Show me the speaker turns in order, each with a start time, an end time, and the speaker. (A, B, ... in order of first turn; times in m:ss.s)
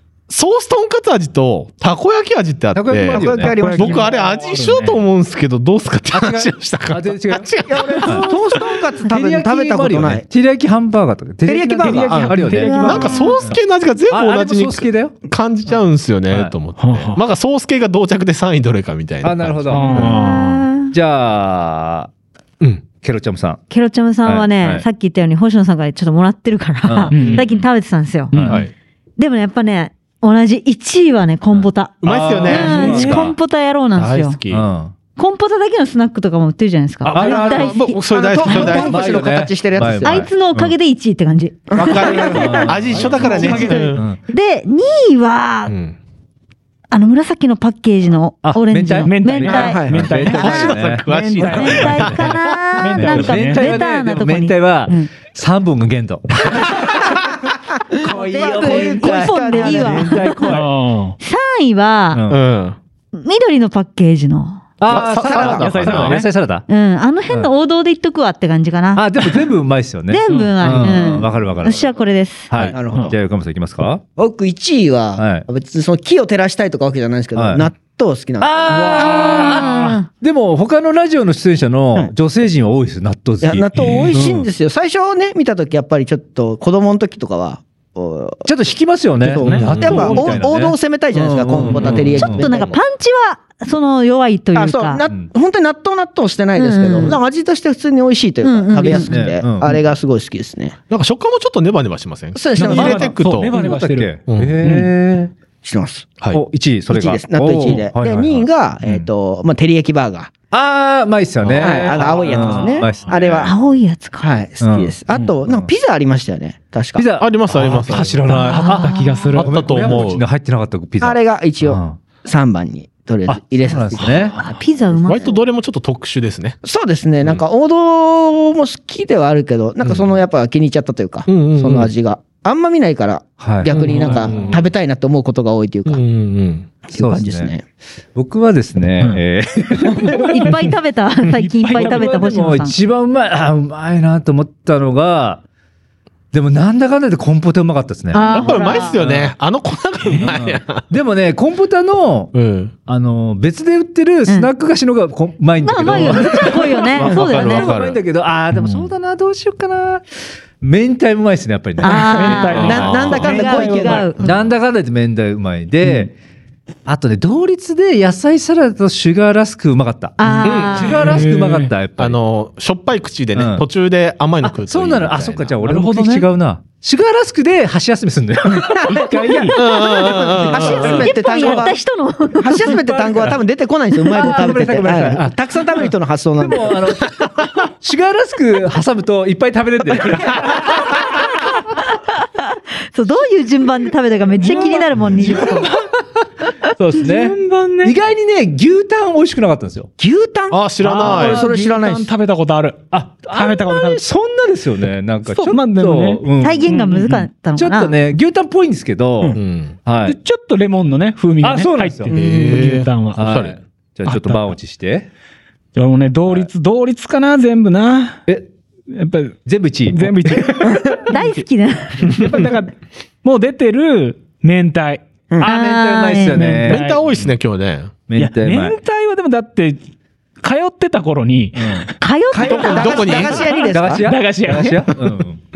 0:00.3-0:08.6 A
0:02.7-0:03.7 B
0:03.0-0:04.1 C
0:03.3-0:05.0 D
0:06.1-0:08.3 B
0:07.7-0:10.2 C
0:09.0-0:12.8 B
0:11.4-0:12.3 C
0:11.8-0:13.3 D
0:11.9-0:20.1 A
0:12.5-0:13.5 E
0:14.1-0:15.2 B
0:16.3-0:16.5 B
0:16.8-0:17.2 D
0:19.2-0:20.2 B
0:19.7-0:20.7 D
0:20.1-0:20.9 E
0:20.9-0:22.1 B
0:22.6-0:22.9 A
0:22.9-0:23.6 B
0:23.7-0:28.4 E
0:24.2-0:24.8 B
0:26.8-0:27.6 B
0:27.1-0:27.4 D
0:27.2-0:27.5 A
0:28.3-0:28.6 D
0:28.3-0:28.6 B
0:28.4-0:28.7 A
0:29.2-0:34.4 E
0:31.5-0:33.3 B
0:32.0-0:33.2 A
0:32.6-0:33.2 D
0:34.0-0:34.6 A
0:34.5-0:34.9 B
0:35.2-0:39.4 E
0:37.0-0:37.8 B
0:37.1-0:40.3 C
0:37.4-0:39.0 A
0:38.5-0:40.7 B
0:40.0-0:45.7 E
0:41.7-0:44.1 A
0:41.7-0:42.6 C
0:42.2-0:44.2 B
0:43.3-0:43.8 D
0:45.7-0:46.0 A
0:46.9-0:50.7 E
0:48.4-0:51.0 B
0:49.0-0:53.7 D
0:49.5-0:50.2 C
0:50.1-0:52.5 A
0:51.4-0:55.1 E
0:53.0-0:57.1 B
0:58.0-1:00.6 B
0:58.1-1:00.4 C
0:58.1-1:00.7 E
1:00.4-1:01.2 D
1:01.2-1:02.3 E
1:02.1-1:02.4 B
1:02.3-1:02.8 A
1:03.1-1:04.7 E
1:04.8-1:06.7 B
1:04.8-1:06.2 A
1:05.0-1:05.6 C
1:05.5-1:06.3 D
1:06.7-1:09.5 E
1:08.9-1:12.0 B
1:10.1-1:12.6 E
1:10.3-1:11.2 D
1:12.5-1:14.0 B
1:12.6-1:13.1 D
1:12.7-1:13.1 C
1:14.2-1:19.3 C
1:15.2-1:15.5 B
1:17.3-1:17.7 B
1:18.4-1:24.4 B
1:18.8-1:20.1 E
1:19.1-1:19.8 D
1:23.4-1:28.6 C
1:28.4-1:32.7 B
1:29.2-1:32.7 C
1:29.5-1:30.4 A
1:31.7-1:32.1 A
1:32.1-1:35.0 E
1:34.5-1:40.8 C
1:35.1-1:35.3 B
1:36.6-1:37.2 E
1:38.4-1:39.4 E
1:38.8-1:39.9 B
1:40.9-1:43.5 A
1:42.3-1:43.1 C
1:42.6-1:44.9 D
1:43.5-1:45.3 B
1:44.3-1:44.5 A
1:45.6-1:46.1 C
1:46.3-1:49.1 B
1:46.9-1:50.3 C
1:50.5-1:53.5 B
1:51.4-1:52.3 A
1:51.6-1:53.5 C
1:51.9-1:52.8 D
1:53.4-1:54.3 E
1:54.2-1:57.0 C
1:54.6-1:55.7 B
1:57.0-2:02.0 B
1:57.1-1:58.2 A
1:58.3-1:59.3 E
1:58.3-1:59.5 D
1:59.4-2:00.2 A
2:01.0-2:04.3 C
2:03.3-2:04.4 B
2:04.4-2:05.4 E
2:05.0-2:06.6 A
2:06.6-2:16.0 C
2:11.3-2:11.9 A
2:13.4-2:14.3 B
2:13.7-2:14.6 A
2:13.9-2:14.5 D
2:15.9-2:16.8 A
2:16.9-2:17.6 C
2:16.9-2:17.5 B
2:18.1-2:20.3 B
2:20.0-2:20.4 D
2:20.2-2:22.8 E
2:21.3-2:22.7 D
2:21.8-2:25.4 B
2:26.3-2:28.4 B
2:28.1-2:29.0 E
2:28.3-2:30.9 A
2:29.0-2:29.3 B
2:30.2-2:40.0 B
2:32.3-2:32.7 A
2:35.6-2:37.8 E
2:36.9-2:38.0 A
2:40.6-2:42.8 B
2:41.8-2:44.4 E
2:41.9-2:44.1 D
2:42.6-2:43.4 A
2:42.6-2:44.1 C
2:44.2-2:46.1 B
2:46.8-2:52.2 B
2:50.2-2:51.1 E
2:50.2-2:51.7 D
2:50.4-2:50.9 A
2:52.0-2:55.5 A
2:53.3-2:53.6 B
2:54.4-2:59.0 B
2:55.6-2:56.3 D
2:58.5-2:58.8 C
2:58.8-2:59.6 D
2:59.5-3:01.2 A
2:59.6-3:01.8 C
3:00.0-3:02.8 E
3:01.4-3:01.7 D
3:02.3-3:07.0 C
3:03.0-3:03.4 B
3:04.1-3:05.4 B
3:06.4-3:07.2 B
3:07.7-3:11.0 B
3:12.9-3:15.8 E
3:14.4-3:15.9 D
3:16.8-3:19.9 B
3:16.9-3:18.0 D
3:20.0-3:22.1 C
3:20.5-3:21.4 A
3:20.8-3:24.0 D
3:22.9-3:26.8 B
3:25.3-3:27.3 D
3:26.4-3:28.0 E
3:27.5-3:30.2 B
3:29.3-3:29.8 A
3:30.0-3:33.2 D
3:31.4-3:32.1 B
3:32.1-3:33.6 A
3:33.2-3:35.1 B
3:34.0-3:34.4 D
3:35.8-3:38.2 D
3:38.9-3:41.4 D
3:39.4-3:41.0 B
3:41.1-3:42.1 E
3:42.0-3:45.0 D
3:45.4-3:47.3 B
3:45.4-3:46.6 E
3:46.3-3:47.0 D
3:46.7-3:48.0 A
3:48.1-3:48.8 B
3:48.2-3:49.8 D
3:50.4-3:51.9 D
3:51.5-3:51.9 B
3:52.0-3:53.3 E
3:52.3-3:54.0 C
3:52.5-3:53.6 A
3:53.4-3:54.9 D
3:53.7-3:55.4 B